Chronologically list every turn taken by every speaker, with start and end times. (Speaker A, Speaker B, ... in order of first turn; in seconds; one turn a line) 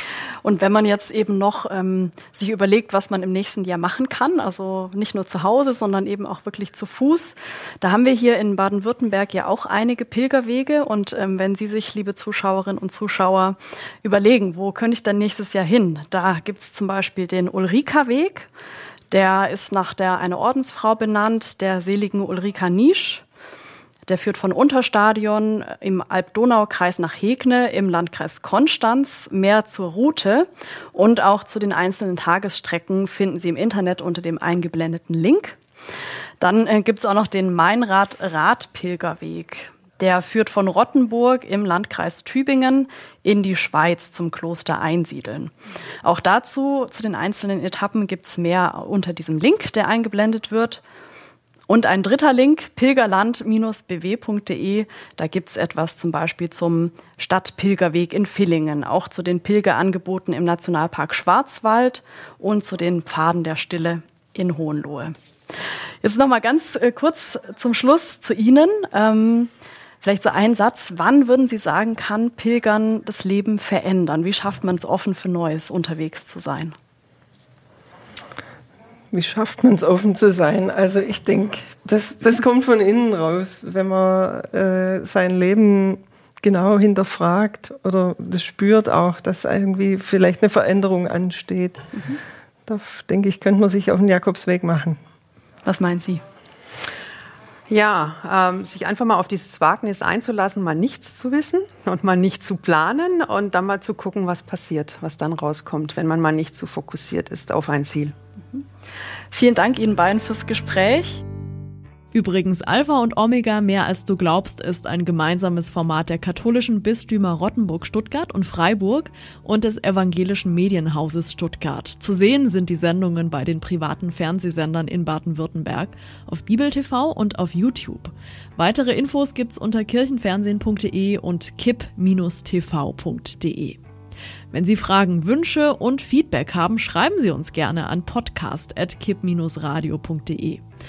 Speaker A: 0.4-18.5
Speaker A: 19.1-23.2
Speaker A: 24.1-35.6
Speaker A: 36.4-50.8
Speaker A: 51.7-65.1
Speaker A: 66.0-76.7
Speaker B: 79.1-91.9
Speaker B: 92.7-95.0
Speaker A: 95.6-96.2
Speaker C: 97.7-108.1
Speaker A: 109.3-111.2
Speaker D: 112.1-133.8
Speaker D: 134.5-140.6